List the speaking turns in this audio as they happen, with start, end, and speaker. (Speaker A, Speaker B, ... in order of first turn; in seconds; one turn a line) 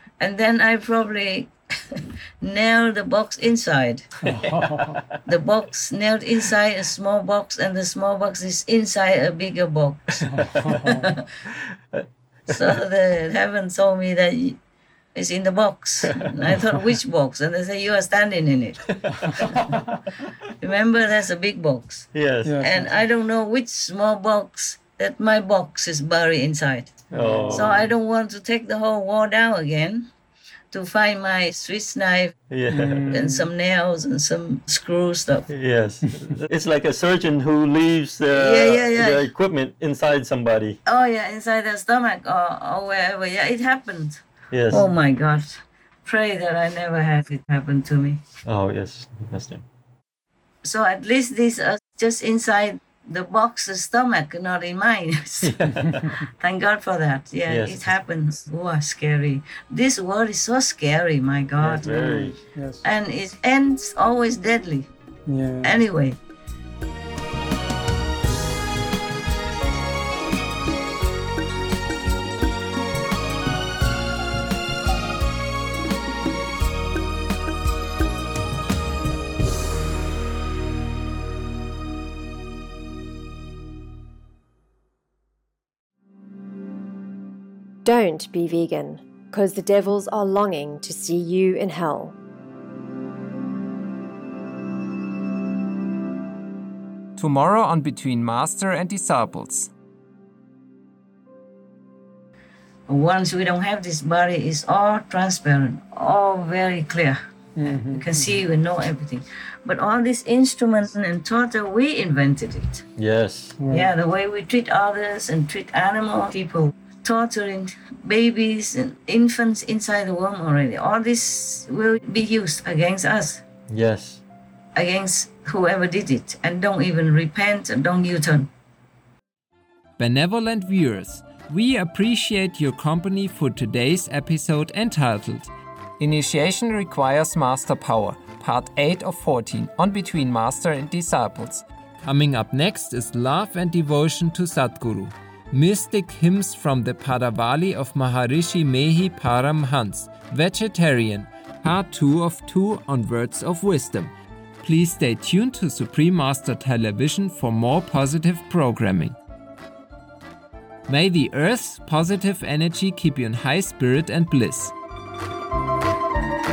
Speaker A: 0.2-4.1
Speaker B: 4.2-5.0
Speaker C: 4.3-5.0
Speaker A: 5.2-11.2
Speaker B: 10.3-11.1
Speaker A: 12.5-14.6
Speaker A: 15.1-18.8
Speaker C: 18.9-20.0
Speaker A: 20.6-26.9
Speaker C: 22.1-22.6
Speaker B: 22.4-23.0
Speaker C: 27.1-27.9
Speaker B: 27.1-27.9
Speaker A: 27.5-30.1
Speaker A: 30.7-32.4
Speaker C: 32.5-33.2
Speaker B: 32.7-33.5
Speaker A: 33.1-35.5
Speaker C: 35.5-40.8
Speaker A: 38.3-39.3
Speaker A: 40.8-48.2
Speaker C: 44.5-44.9
Speaker C: 48.4-49.6
Speaker A: 50.6-55.6
Speaker C: 55.4-56.2
Speaker A: 56.4-62.0
Speaker C: 57.5-57.9
Speaker C: 61.6-62.4
Speaker B: 61.7-62.8
Speaker A: 62.8-64.9
Speaker B: 65.2-65.8
Speaker A: 65.6-66.2
Speaker D: 87.8-92.1
Speaker E: 97.2-99.7
Speaker A: 102.9-112.8
Speaker B: 107.5-108.4
Speaker C: 113.0-113.6
Speaker B: 113.6-113.9
Speaker A: 113.7-123.4
Speaker C: 123.7-124.2
Speaker A: 124.8-128.5
Speaker E: 130.0-159.2
Speaker E: 160.9-164.7